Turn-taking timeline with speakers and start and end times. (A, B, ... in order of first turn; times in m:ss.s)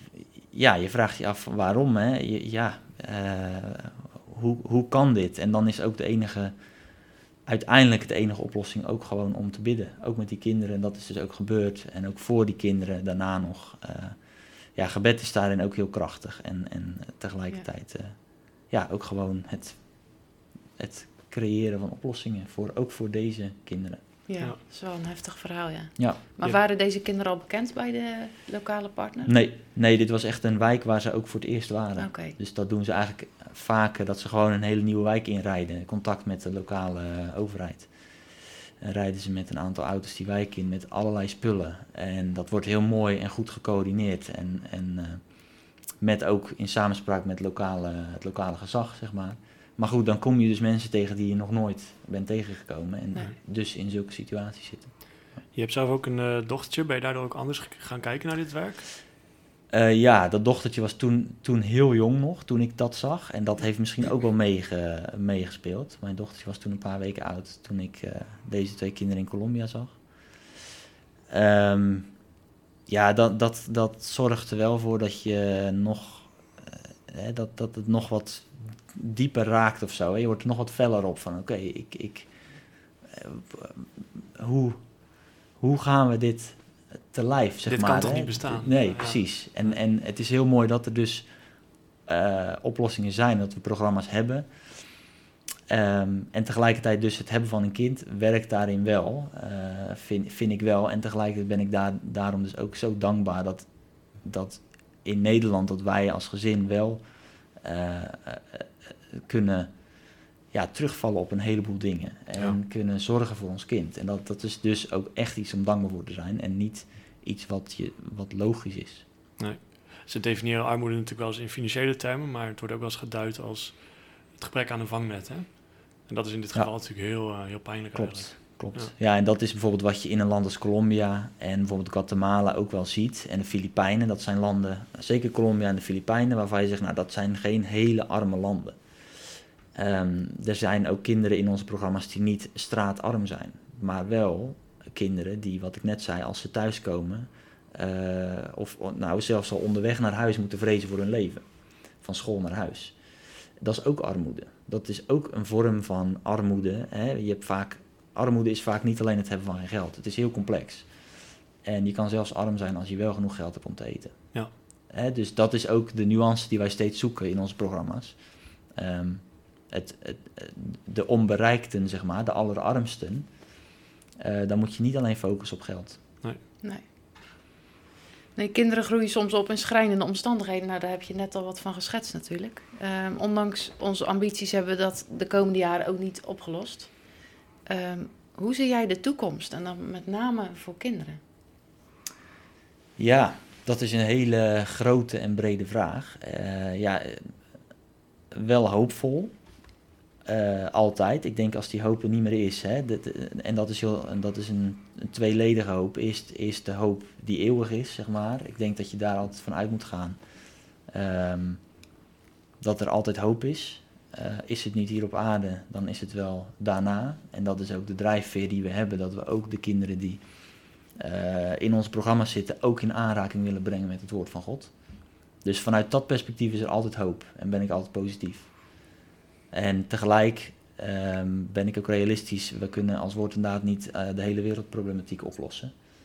0:00.1-0:06.5 A
0:07.4-0:14.2 A
0:14.8-0:18.2 A
0:18.7-0:19.8 A
0:20.8-0:24.0 A
0:24.3-0:29.3 B
0:29.2-0:37.9 A
0:32.0-0:32.4 B
0:38.8-0:45.2 A
0:46.0-0:54.9 A
0:55.5-0:58.8 C
0:59.7-1:09.9 A
1:11.3-1:12.1 A
1:12.9-1:22.3 A
1:23.1-1:24.8 A
1:25.6-1:26.6 A
1:27.1-1:31.3 A
1:27.7-1:29.2 C
1:32.0-1:34.5 A
1:35.7-1:43.7 A
1:44.2-1:47.0 A
1:47.6-1:49.7 A
1:50.5-1:59.0 A
1:59.4-2:08.9 C
2:07.9-2:18.8 A
2:19.7-2:31.4 A
2:32.0-2:32.9 A
2:33.6-2:40.9 A
2:41.6-2:44.2 A
2:44.9-2:48.1 A
2:48.7-2:53.3 A
2:54.2-2:56.0 A
2:58.4-3:06.9 B
3:07.7-3:11.2 B
3:13.0-3:17.3 A
3:18.3-3:19.3 A
3:20.2-3:30.2 A
3:30.9-3:31.6 A
3:32.6-3:40.2 A
3:41.0-3:44.7 A
3:45.4-3:48.5 A
3:49.5-3:55.7 A